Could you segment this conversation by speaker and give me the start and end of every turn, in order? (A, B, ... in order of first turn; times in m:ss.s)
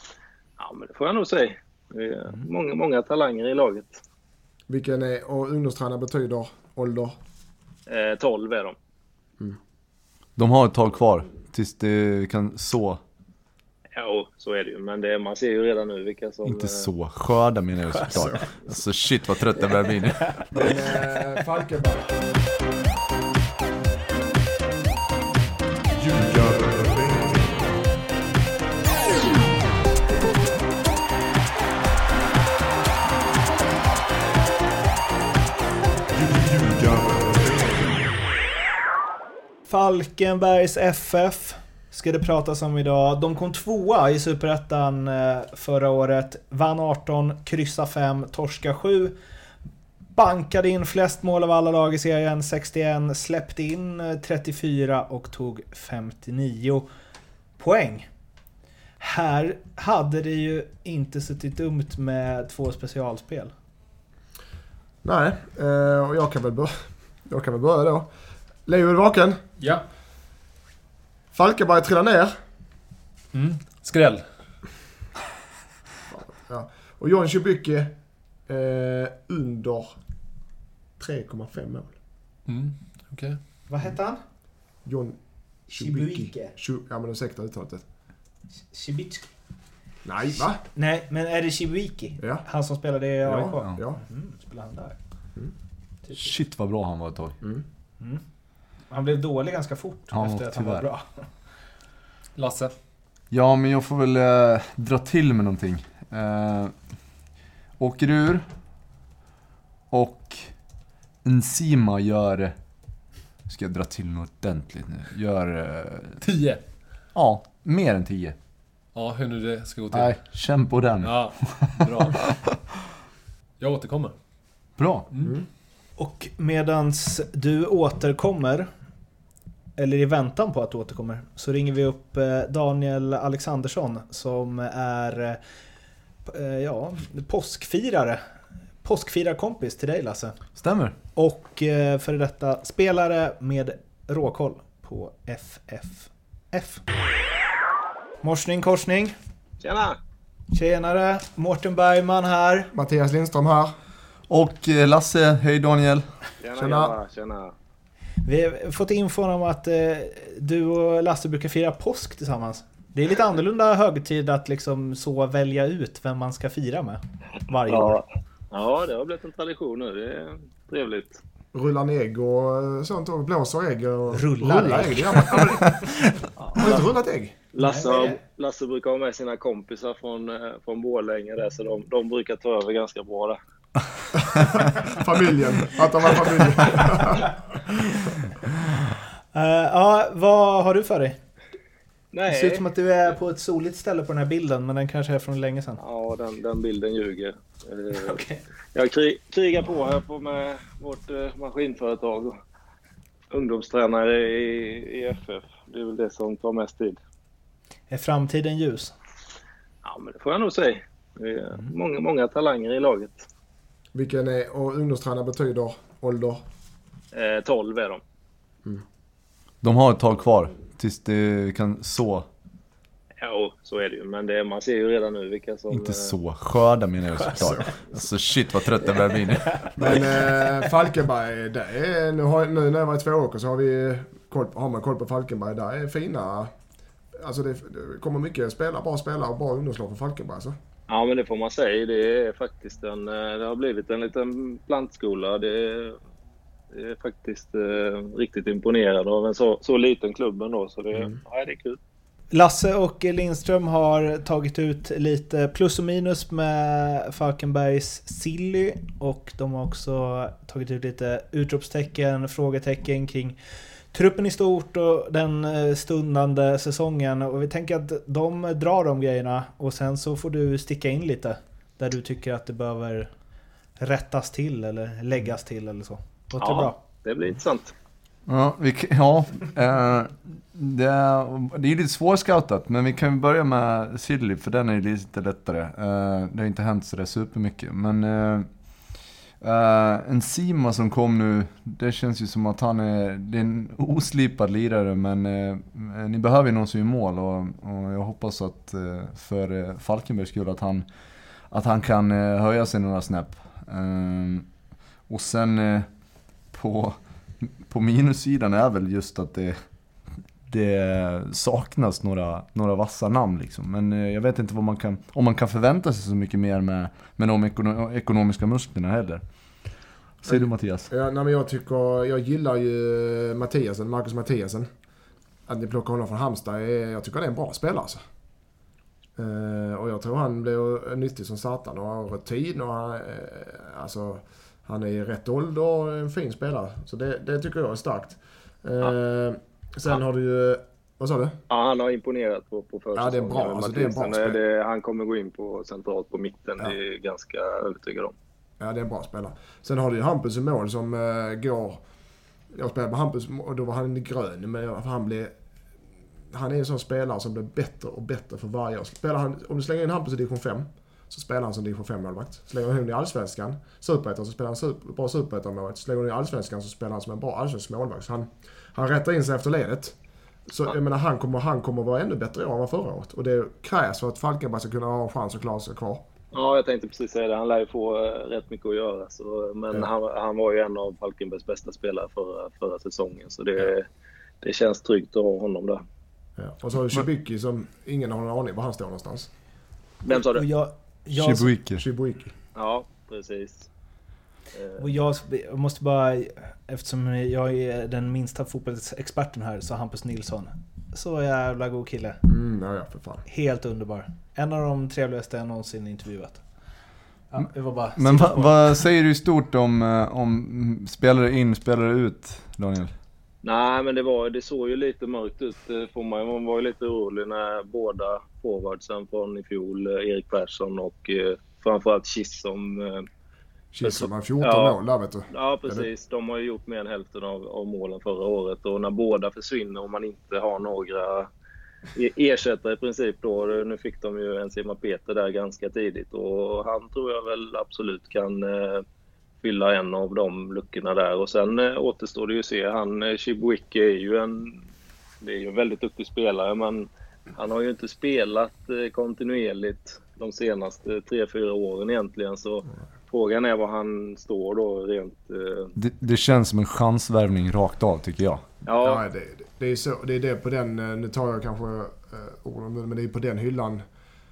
0:00.6-0:04.0 A
0:04.7-0:07.2 B
0:07.9-0:08.8 A
0:10.4-0:13.0 C
0:14.0-0:16.9 A
0:16.4-0:20.7 C
0:20.6-0:22.1 B
0:26.1-0:26.9 C
0:39.7-0:49.2 D
0:50.2-0:56.9 D
0:57.6-0:58.1 D
0:59.0-1:03.5 D
1:05.0-1:08.1 B
1:08.7-1:09.4 B
1:09.6-1:09.8 E
1:11.3-1:12.3 B
1:13.3-1:14.2 E
1:16.1-1:18.0 B
1:18.5-1:20.0 B
1:21.0-1:21.9 B
1:22.5-1:23.4 E
1:23.7-1:24.2 D
1:24.8-1:25.2 B
1:25.7-1:27.8 B
1:25.7-1:26.6 D
1:28.7-1:29.3 D
1:30.0-1:30.6 B
1:30.7-1:35.0 D
1:32.2-1:32.4 B
1:33.2-1:34.0 B
1:36.1-1:37.4 C
1:38.9-1:41.1 D
1:40.1-1:40.9 C
1:42.4-1:42.7 E
1:43.3-1:46.7 C
1:47.8-1:48.4 C
1:49.9-1:50.5 C
1:51.2-1:52.6 C
1:53.5-1:56.2 C
1:56.2-1:56.6 E
1:57.2-1:58.4 C
1:59.0-2:00.2 E
1:59.9-2:02.2 C
2:01.0-2:02.3 E
2:03.6-2:04.1 E
2:04.8-2:05.1 C
2:06.0-2:08.7 D
2:09.8-2:15.4 D
2:16.3-2:18.2 D
2:18.8-2:20.4 D
2:20.6-2:21.0 C
2:21.2-2:26.8 D
2:28.2-2:29.2 D
2:29.6-2:30.0 A
2:30.5-2:32.7 D
2:32.7-2:33.7 B
2:34.3-2:36.1 C
2:36.4-2:37.5 A
2:36.6-2:37.0 B
2:38.2-2:48.0 D
2:47.7-2:51.2 A
2:51.5-2:55.9 B
2:54.1-2:56.0 D
2:56.4-2:56.8 A
2:56.6-2:57.4 B
2:57.5-3:03.4 A
2:57.6-2:58.2 D
3:04.3-3:07.4 B
3:09.3-3:11.2 D
3:12.1-3:12.6 A
3:12.3-3:15.8 D
3:15.8-3:18.2 A
3:17.9-3:18.4 D
3:18.7-3:22.4 A
3:23.3-3:27.0 A
3:27.9-3:28.9 D
3:29.8-3:33.3 A
3:33.9-3:36.4 B
3:37.1-3:38.0 A
3:39.6-3:42.3 C
3:43.2-3:46.1 A
3:45.7-3:50.2 C
3:47.4-3:47.8 B
3:49.8-3:56.5 B
3:57.2-4:00.6 B
4:00.9-4:06.0 A
4:06.7-4:11.8 A
4:12.3-4:23.4 D
4:23.9-4:33.1 D
4:33.8-4:36.8 D
4:36.4-4:37.7 A
4:38.3-4:48.5 C
4:49.4-5:00.8 C
5:01.5-5:04.5 C
5:05.1-5:05.9 C
5:06.5-5:09.6 C
5:10.5-5:19.2 C
5:20.2-5:20.9 C
5:20.3-5:24.7 B
5:25.5-5:28.0 B
5:29.2-5:41.4 B
5:41.5-5:48.1 A
5:43.0-5:44.4 B
5:48.6-5:51.8 B
5:52.5-5:55.3 B
5:56.3-6:10.0 B
6:10.5-6:16.0 B
6:16.3-6:23.9 A
6:24.4-6:25.8 A
6:26.4-6:29.3 B
6:30.0-6:30.5 A
6:30.1-6:31.5 D
6:31.1-6:31.8 C
6:31.8-6:32.4 B
6:32.6-6:33.7 A
6:34.5-6:34.8 A
6:34.8-6:42.2 D
6:42.3-6:43.2 B
6:43.3-6:46.4 D
6:47.3-6:48.8 D
6:48.0-6:52.9 C
6:53.4-7:03.1 A
7:03.7-7:05.9 B
7:03.8-7:04.8 A
7:05.3-7:11.3 A
7:12.0-7:18.8 A
7:19.4-7:24.6 A
7:25.2-7:35.7 A
7:35.8-7:38.4 C
7:38.6-7:39.0 A
7:38.8-7:43.8 B